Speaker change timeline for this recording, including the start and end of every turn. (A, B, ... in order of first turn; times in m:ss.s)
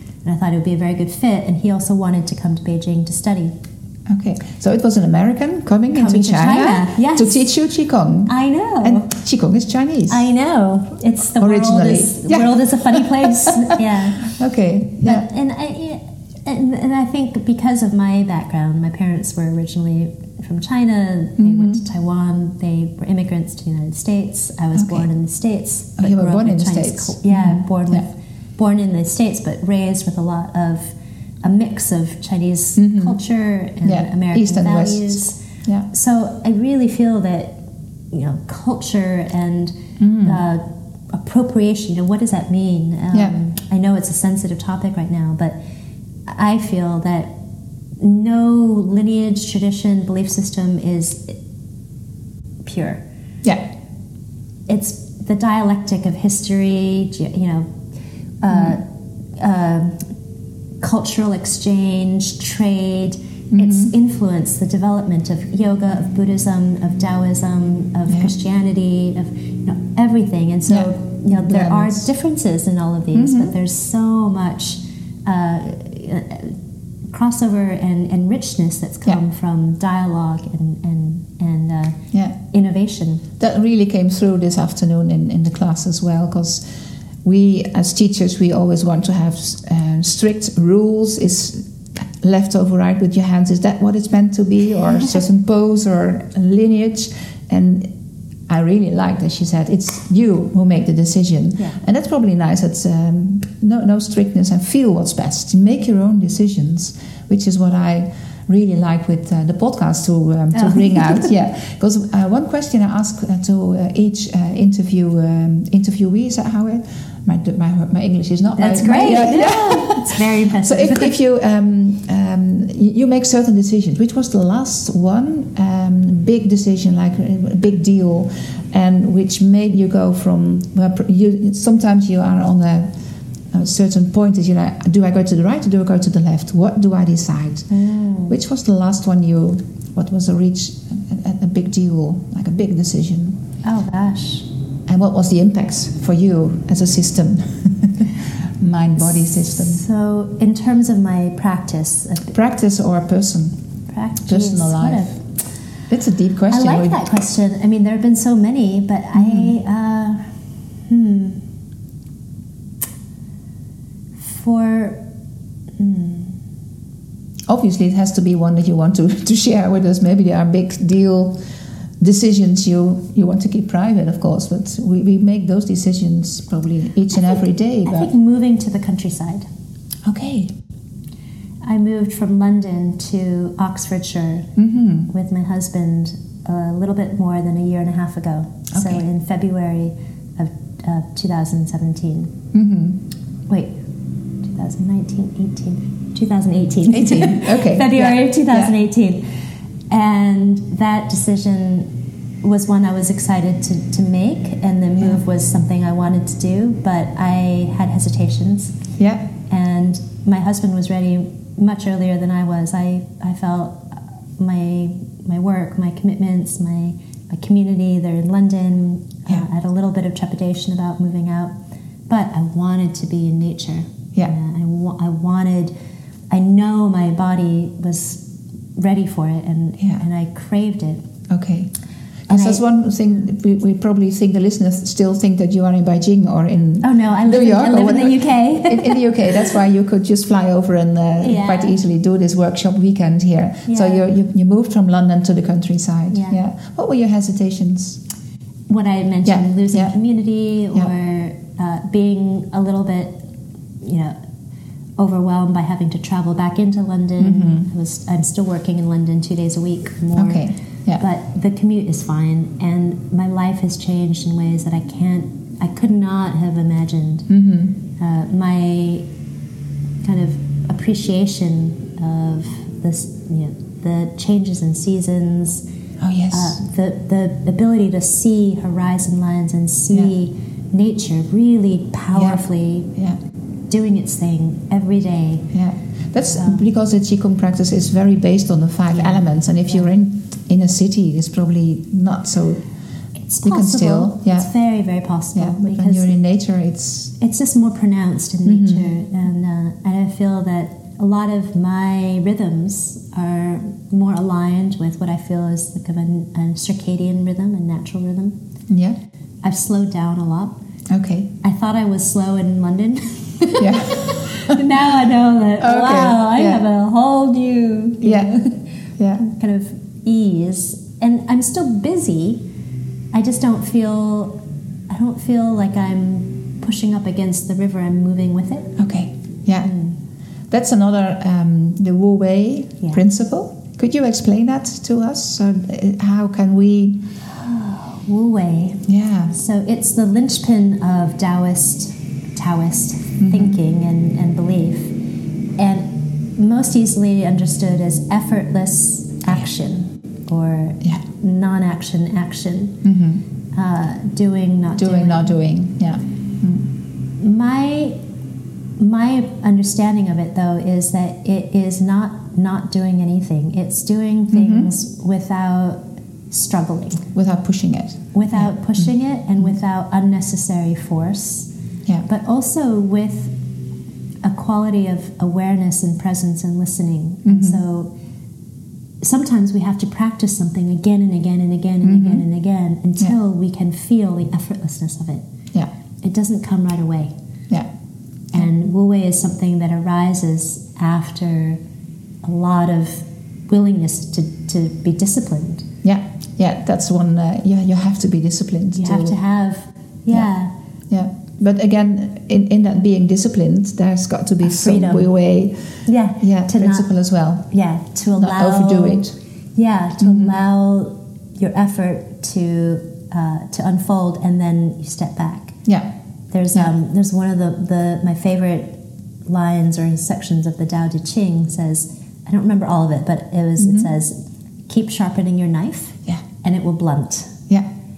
0:00.2-0:03.6 A
0:04.1-0:10.2 B
0:05.9-0:07.5 A
0:08.3-0:09.1 A
0:10.1-0:14.4 A
0:11.4-0:15.3 B
0:15.0-0:35.4 A
0:21.4-0:21.8 B
0:24.8-0:25.1 B
0:26.0-0:28.0 B
0:32.8-0:33.2 B
0:33.8-0:35.9 B
0:35.9-0:37.6 A
0:38.1-0:45.6 A
0:40.0-0:40.4 B
0:43.1-0:43.4 B
0:46.3-0:47.3 A
0:48.0-0:51.4 A
0:52.6-0:53.0 A
0:54.7-0:57.7 A
0:58.4-0:58.8 A
0:58.5-0:58.8 B
0:59.4-1:00.1 A
1:00.8-1:16.6 A
1:03.5-1:03.9 B
1:08.1-1:08.3 B
1:10.7-1:12.1 B
1:13.1-1:13.5 B
1:17.1-1:23.2 A
1:23.4-1:26.6 B
1:27.2-1:37.9 B
1:38.5-2:13.0 B
1:50.5-1:51.3 A
1:58.6-2:01.2 A
2:13.5-2:17.7 B
2:17.7-2:18.4 A
2:18.3-2:23.4 B
2:23.6-2:24.5 A
2:24.9-2:29.8 B
2:29.0-2:32.4 A
2:32.3-2:33.6 B
2:33.9-2:35.2 A
2:34.2-2:35.2 B
2:35.9-2:37.0 B
2:36.5-2:41.5 A
2:39.1-2:39.6 B
2:44.2-2:45.0 A
2:45.8-2:46.4 A
2:47.5-2:51.4 B
2:52.0-2:58.1 B
2:57.3-2:59.5 A
3:00.1-3:00.5 B
3:01.6-3:04.5 A
3:04.6-3:05.1 B
3:05.1-3:12.3 A
3:08.7-3:09.0 B
3:12.5-3:13.0 B
3:13.5-3:13.7 A
3:14.4-3:19.3 A
3:16.9-3:18.7 B
3:19.9-3:21.9 A
3:22.4-3:28.8 A
3:29.0-3:29.3 B
3:29.5-3:41.5 A
3:42.1-3:45.7 A
3:46.3-3:48.2 A
3:48.8-3:51.1 A
3:51.3-3:51.7 B
3:52.3-4:08.0 B
3:52.3-3:52.6 A
3:56.8-3:59.2 A
4:01.2-4:01.8 A
4:03.7-4:04.0 A
4:06.1-4:06.4 A
4:08.7-4:13.2 A
4:09.2-4:10.0 B
4:13.8-4:14.2 A
4:15.0-4:27.3 A
4:17.2-4:17.7 B
4:20.2-4:21.0 B
4:27.3-4:27.8 B
4:28.0-4:29.1 A
4:30.0-4:35.6 A
4:36.0-4:36.6 B
4:36.3-4:42.9 A
4:42.1-4:42.4 B
4:43.7-4:45.5 A
4:45.5-4:52.6 B
4:46.4-4:46.6 A
4:49.0-4:49.2 A
4:53.3-4:56.2 A
4:53.4-4:54.5 B
4:55.4-4:57.2 B
4:57.2-5:08.4 A
4:58.4-4:58.9 B
5:08.7-5:09.0 B
5:09.4-5:10.6 A
5:10.9-5:11.3 B
5:11.4-5:22.4 A
5:13.6-5:14.6 B
5:15.6-5:16.6 B
5:18.0-5:18.3 B
5:23.1-5:28.8 A
5:28.8-5:29.7 B
5:29.6-5:30.0 A
5:30.5-5:37.0 B
5:37.2-5:44.9 A
5:38.9-5:39.3 B
5:43.2-5:43.6 B
5:45.6-5:52.8 A
5:52.8-5:53.2 B
5:53.5-5:55.3 A
5:54.8-5:56.7 B
5:57.2-5:58.0 A
5:58.8-6:07.0 A
6:04.3-6:04.7 B
6:07.1-6:08.9 B
6:08.1-6:11.5 A
6:12.1-6:13.4 A
6:14.2-6:17.9 A
6:17.2-6:17.6 B
6:19.0-6:25.2 A
6:21.8-6:22.2 B
6:26.0-6:27.1 A
6:28.3-6:31.6 A
6:32.2-6:35.7 A
6:35.8-6:39.2 B
6:38.8-6:40.5 A
6:40.9-6:47.5 B
6:44.4-6:45.1 A
6:45.9-6:46.9 A
6:47.5-6:49.0 A
6:48.2-6:49.2 B
6:49.6-6:55.6 A
6:50.0-6:50.4 B
6:56.3-7:04.2 A
7:03.6-7:03.9 B
7:04.7-7:07.4 A